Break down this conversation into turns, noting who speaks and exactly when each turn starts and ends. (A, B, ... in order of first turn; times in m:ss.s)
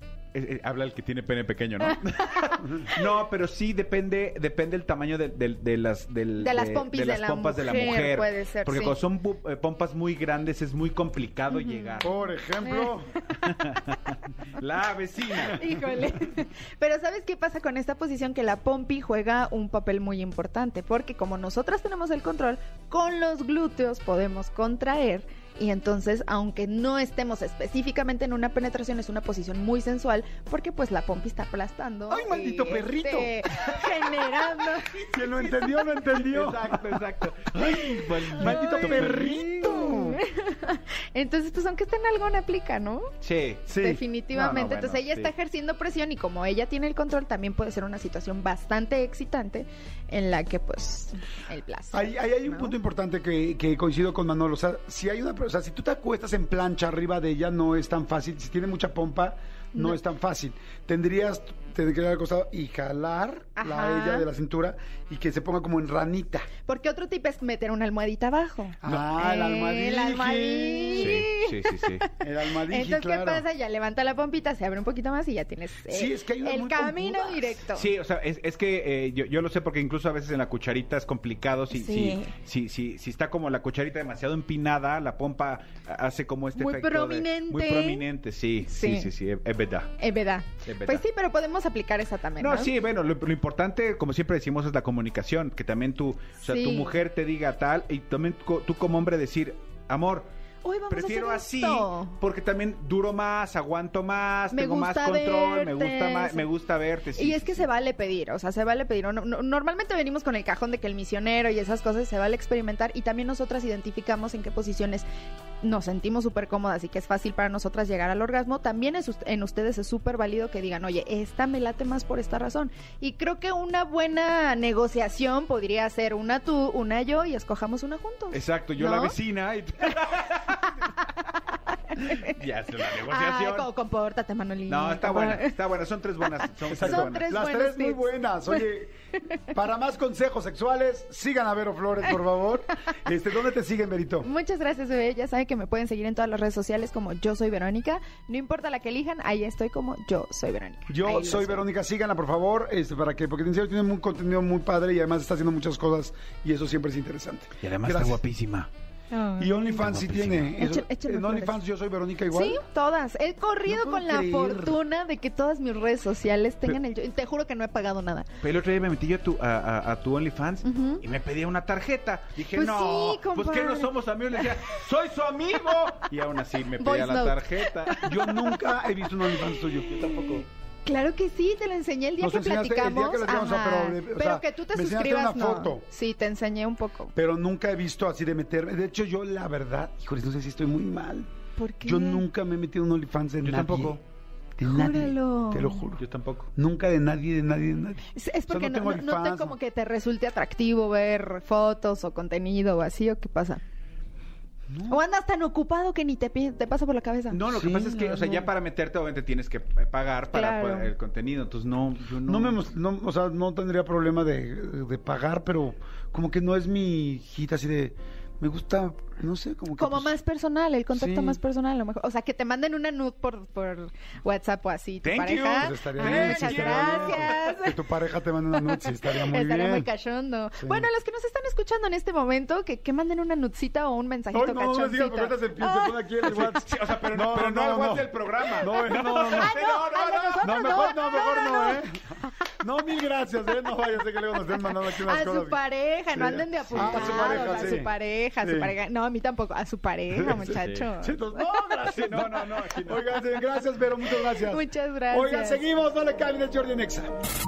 0:00.3-0:12.1 A
0:06.4-0:09.0 B
0:11.5-0:13.0 B
0:12.0-0:13.2 C
0:13.3-0:15.6 A
0:15.4-0:35.0 B
0:32.1-0:33.4 C
0:35.0-0:39.8 A
0:35.1-0:37.0 C
0:37.6-0:40.2 C
0:38.4-0:43.1 B
0:43.2-0:43.7 A
0:43.7-0:52.8 B
0:43.7-0:44.0 C
0:44.3-0:45.3 A
0:51.9-1:06.5 C
0:59.7-1:00.0 B
1:03.6-1:04.3 B
1:06.6-1:12.0 B
1:08.8-1:11.2 C
1:11.0-1:12.1 A
1:12.2-1:13.5 C
1:12.7-1:17.9 B
1:15.9-1:17.6 C
1:17.7-1:29.9 A
1:21.7-1:22.3 B
1:26.6-1:28.1 B
1:28.7-1:29.1 B
1:30.0-1:32.7 B
1:30.6-1:31.0 A
1:32.4-1:40.3 A
1:36.4-1:37.0 B
1:40.6-1:42.2 B
1:40.9-1:47.7 A
1:44.5-1:46.5 B
1:47.2-1:55.1 B
1:55.6-2:09.2 B
2:08.3-2:10.8 A
2:12.0-2:12.3 B
2:12.0-2:13.7 A
2:13.0-2:15.6 B
2:14.7-2:17.3 A
2:16.2-2:18.7 B
2:16.7-2:24.3 C
2:24.2-2:31.6 B
2:30.9-2:38.2 C
2:37.6-2:38.7 A
2:39.1-2:39.8 B
2:39.4-2:42.6 C
2:39.7-2:40.6 A
2:40.6-2:41.6 B
2:42.3-2:48.3 B
2:43.7-2:44.8 C
2:48.4-2:58.1 A
2:50.6-2:51.0 B
2:52.5-2:54.5 B
2:56.8-2:58.7 B
2:58.0-3:00.1 C
2:59.9-3:00.4 A
3:00.1-3:07.1 B
3:02.2-3:05.9 C
3:07.2-3:11.3 C
3:11.6-3:12.3 B
3:11.8-3:14.0 C
3:13.4-3:14.0 A
3:14.6-3:16.0 C
3:14.6-3:15.8 B
3:16.0-3:16.5 A
3:16.6-3:19.6 C
3:18.1-3:23.6 B
3:24.7-3:25.0 C
3:24.9-3:27.4 B
3:27.3-3:32.6 A
3:27.5-3:28.5 C
3:30.3-3:30.9 B
3:32.2-3:40.1 C
3:39.8-3:47.9 B
3:40.9-3:41.4 C
3:45.0-3:47.5 A
3:45.5-3:49.9 C
3:48.5-3:56.0 B
3:50.6-3:50.9 C
3:54.3-3:59.6 C
3:56.2-4:00.4 A
3:58.5-4:01.9 B
4:00.4-4:05.6 C
4:04.6-4:11.4 B
4:06.1-4:08.8 C
4:06.7-4:07.7 A
4:10.1-4:17.1 C
4:10.6-4:10.9 A
4:11.8-4:13.3 A
4:14.1-4:15.6 B